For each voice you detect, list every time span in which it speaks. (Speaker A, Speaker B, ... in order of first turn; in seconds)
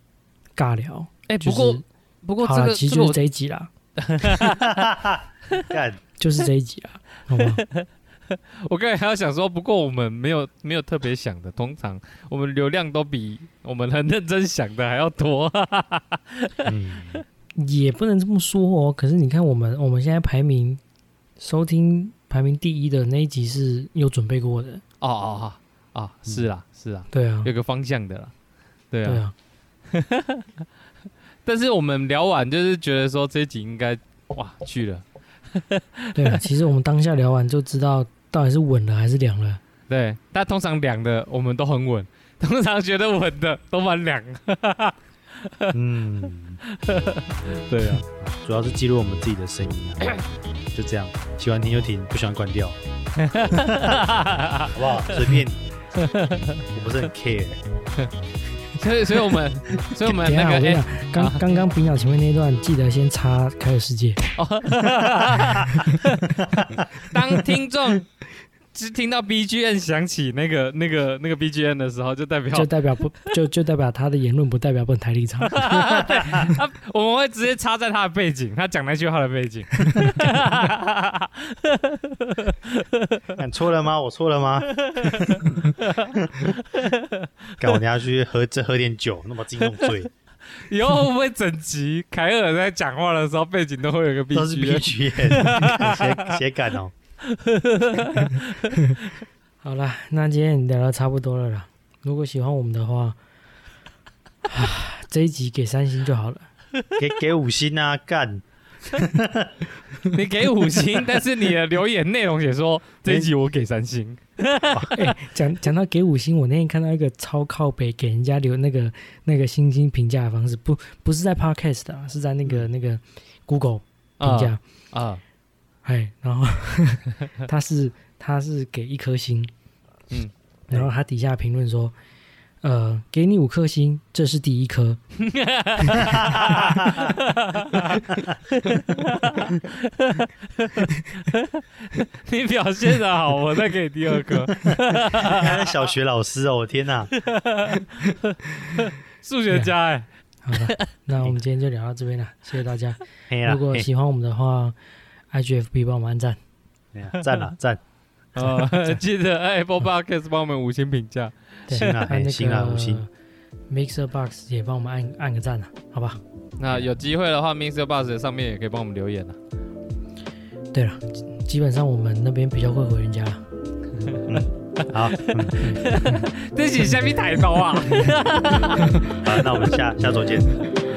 Speaker A: 0.6-1.8, 2.4-3.7, 6.2-7.6, 17.6-20.8, 21.4-24.8, 27.1-27.5, 29.1-29.3, 36.1-39.6, 60.0-64.2, 72.5-75.8, 99.6-103.2, 104.5-106.5, 114.9-124.6, 125.8-129.5, 130.7-131.9, 132.6-135.0, 150.4-154.8, 155.3-156.4, 161.7-163.1, 163.7-166.2, 170.7-173.4
Speaker B: 1.3-3.2, 4.0-4.9, 7.4-17.1, 25.0-28.3, 28.9-29.2, 29.9-30.6, 31.4-36.4, 39.9-45.8, 46.7-48.0, 53.2-55.2, 56.0-56.6, 58.8-61.4, 64.4-66.4, 67.0-68.1, 68.7-72.7, 75.5-83.2, 84.8-87.3, 89.7-90.0, 90.6-96.4, 97.3-99.1, 110.1-115.1, 124.2-125.2, 135.2-145.7, 147.2-150.8, 158.3-162.0, 166.6-169.4, 175.1-179.6
Speaker C: 4.5-6.0, 16.6-17.2, 45.7-46.6, 48.0-50.2, 50.7-52.8, 53.5-54.0, 54.7-55.6, 56.7-57.6, 83.4-86.5, 87.6-90.1, 94.3-96.9, 107.0-109.5, 113.0-113.3, 136.0-137.2, 138.1-138.8, 144.5-147.1, 153.3-153.9, 156.9-157.8, 161.7-163.0, 174.2-175.8, 179.1-180.6